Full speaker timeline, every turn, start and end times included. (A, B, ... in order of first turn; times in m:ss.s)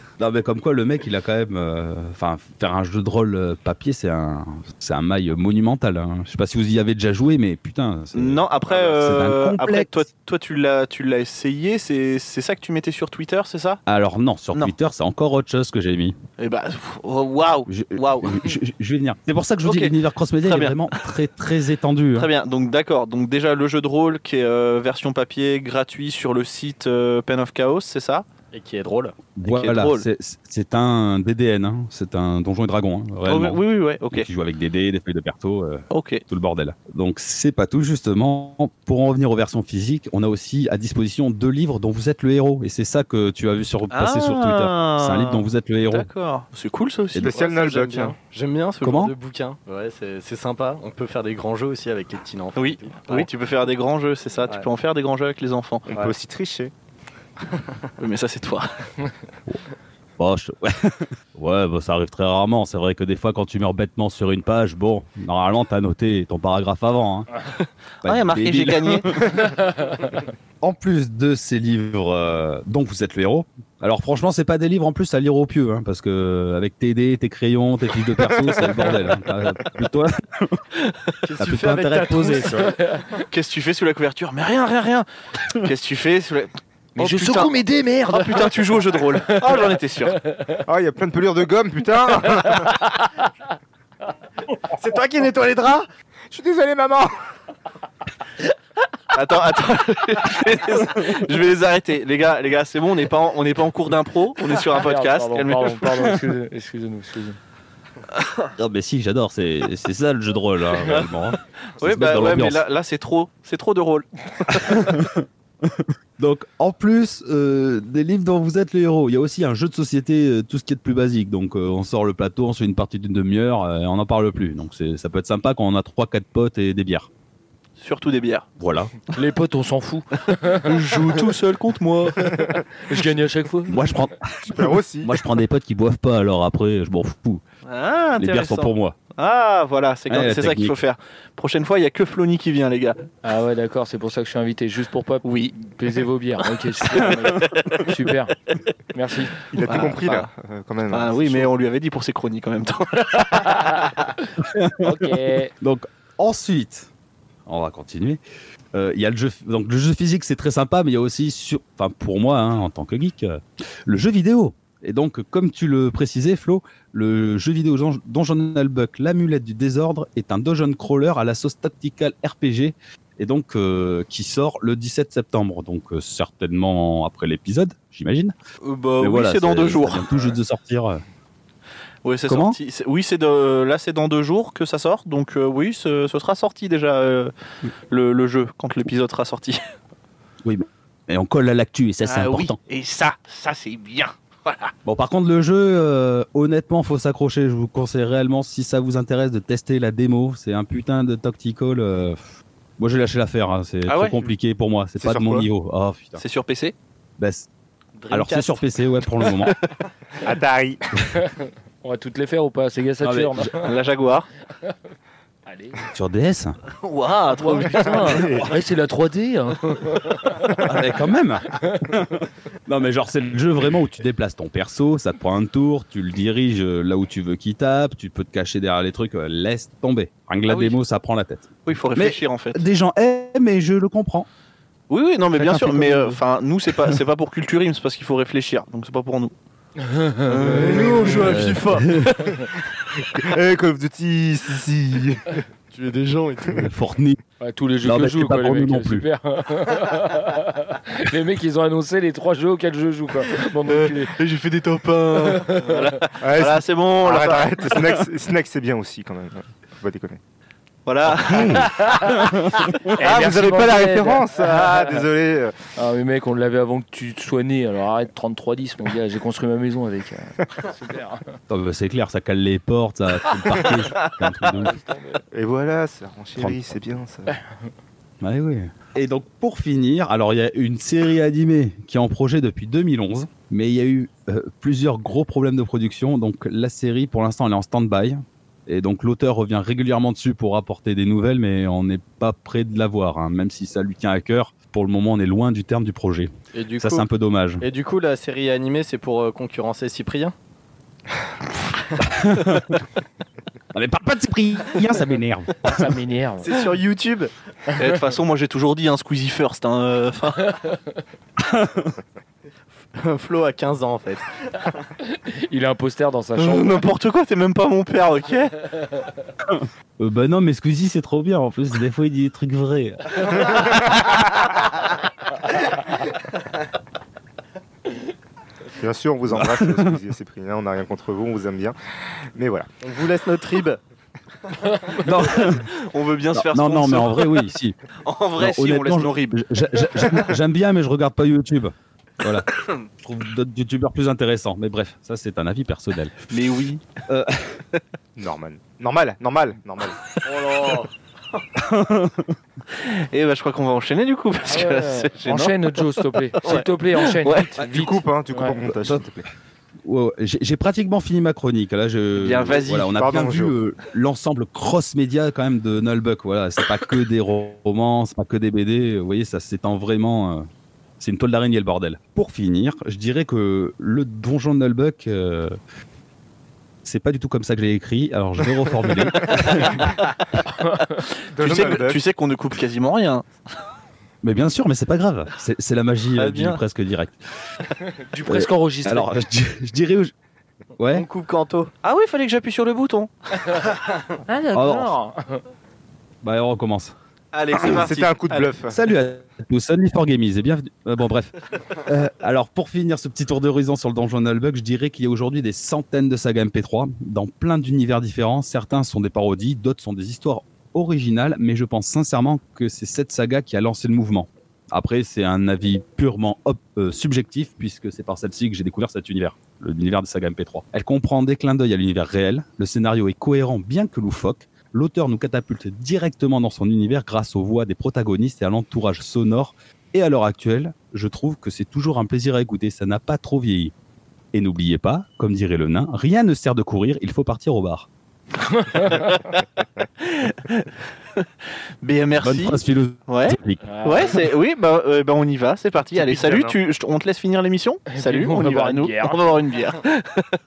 0:00.2-0:10.1 A
0:08.1-0:13.8 B
0:13.9-0:16.2 A
0:16.4-0:18.5 B
0:17.7-0:22.3 A
0:19.6-0:20.8 B
0:22.2-0:28.3 B
0:28.5-0:29.2 C
0:29.4-0:46.1 A
0:29.4-0:30.1 B
0:33.3-0:34.3 B
0:35.9-0:36.2 B
0:43.9-0:47.3 B
0:47.2-0:48.2 D
0:47.3-0:53.3 C
0:48.8-0:49.1 A
0:52.6-0:55.9 B
0:55.9-0:56.7 D
0:58.0-0:58.9 B
1:00.2-1:07.3 A
1:08.0-1:09.3 A
1:08.0-1:09.1 B
1:09.5-1:09.9 E
1:10.6-1:20.6 A
1:18.4-1:19.2 D
1:21.2-1:23.0 C
1:21.4-1:22.6 A
1:23.3-1:30.2 B
1:27.0-1:28.7 E
1:29.3-1:29.6 E
1:30.3-1:30.6 E
1:30.7-1:32.8 D
1:34.8-1:35.4 D
1:34.9-1:35.8 C
1:36.3-1:37.1 D
1:39.1-1:46.2 B
1:44.7-1:47.4 E
1:48.6-1:52.6 A
1:51.8-1:55.0 B
1:54.7-2:07.1 A
2:07.8-2:08.5 B
2:08.6-2:08.9 A
2:09.1-2:10.7 E
2:10.6-2:12.4 B
2:12.8-2:13.8 E
2:13.7-2:17.4 A
2:14.5-2:15.2 D
2:17.7-2:23.1 B
2:18.2-2:19.0 A
2:20.1-2:20.8 A
2:23.2-2:28.3 E
2:25.2-2:25.6 B
2:26.9-2:27.9 B
2:28.9-2:29.4 E
2:29.5-2:31.5 D
2:29.7-2:30.3 B
2:30.9-2:33.9 B
2:33.4-2:33.9 E
2:34.4-2:36.9 A
2:34.8-2:35.5 E
2:37.5-2:38.2 A
2:38.7-2:58.4 A
2:58.6-3:00.2 B
2:59.0-3:01.0 A
3:02.0-3:07.3 B
3:02.3-3:02.6 A
3:07.9-3:09.6 B
3:10.4-3:12.6 A
3:12.0-3:14.7 B
3:14.8-3:22.2 A
3:22.8-3:26.2 A
3:23.9-3:24.2 B
3:25.0-3:25.5 D
3:26.2-3:26.8 B
3:27.2-3:27.5 A
3:28.0-3:28.6 B
3:28.1-3:29.6 A
3:29.3-3:29.5 B
3:30.2-3:31.2 D
3:31.8-3:33.7 E
3:33.0-3:33.5 A
3:33.5-3:34.3 B
3:35.5-3:35.8 E
3:35.9-3:36.6 A
3:36.8-3:38.3 B
3:37.4-3:40.7 E
3:38.1-3:38.4 D
3:40.7-3:54.3 A
3:41.5-3:41.9 E
3:50.5-3:50.8 B
3:51.6-3:52.6 B
3:54.9-3:59.3 B
3:55.4-3:56.2 A
3:59.8-4:00.2 E
4:00.3-4:01.2 B
4:00.4-4:02.2 C
4:00.4-4:01.5 D
4:01.1-4:02.1 A
4:03.0-4:05.4 D
4:05.7-4:06.7 C
4:06.6-4:07.2 A
4:07.4-4:14.2 E
4:07.8-4:09.0 A
4:14.2-4:17.8 B
4:15.5-4:15.7 E
4:16.2-4:20.2 D
4:20.9-4:21.7 B
4:21.3-4:22.7 A
4:21.6-4:22.2 E
4:22.9-4:25.0 E
4:23.0-4:25.7 D
4:25.8-4:31.2 E
4:31.5-4:34.8 A
4:34.6-4:35.2 E
4:35.3-4:37.4 D
4:36.4-4:36.8 A
4:38.2-4:57.6 A
4:56.6-4:57.1 C
4:57.6-5:00.3 C
5:02.0-5:02.8 A
5:03.7-5:05.9 A
5:05.7-5:06.6 E
5:06.4-5:07.3 C
5:07.8-5:10.7 B
5:11.4-5:11.9 A
5:13.0-5:14.7 C
5:15.2-5:16.8 E
5:16.4-5:18.6 B
5:19.5-5:23.3 A
5:28.8-5:32.7 D
5:29.3-5:30.0 A
5:32.8-5:33.8 C
5:35.0-5:35.7 A
5:35.4-5:37.4 B
5:36.3-5:37.8 A
5:38.0-5:40.3 B
5:38.4-5:46.3 A
5:46.3-5:46.8 B
5:47.1-5:47.6 A
5:48.2-5:50.0 D
5:50.3-5:50.9 C
5:51.6-5:52.4 A
5:52.7-5:57.5 B
5:54.5-5:58.6 E
5:57.6-5:59.2 D
5:58.6-5:59.3 A
5:59.8-6:10.5 A
6:02.2-6:02.9 B
6:02.7-6:03.6 D
6:11.0-6:15.6 A
6:16.8-6:19.9 A
6:19.8-6:20.2 B
6:20.8-6:23.3 B
6:21.3-6:22.0 D
6:24.2-6:27.2 A
6:26.2-6:26.6 C
6:28.1-6:29.1 E
6:28.3-6:30.1 A
6:30.8-6:31.1 A
6:30.9-6:31.7 C
6:31.8-6:33.5 B
6:34.3-6:35.4 E
6:34.5-6:35.0 A
6:36.2-6:37.0 A
6:37.3-6:38.5 B
6:37.6-6:37.8 A
6:37.6-6:38.8 D
6:38.7-7:13.7 A
7:14.3-7:17.9 A
7:18.6-7:19.0 E
7:18.9-7:19.2 B
7:20.0-7:21.3 B
7:21.8-7:30.4 B
7:22.2-7:23.6 A
7:23.6-7:24.2 E
7:25.9-7:26.6 D
7:27.9-7:29.2 E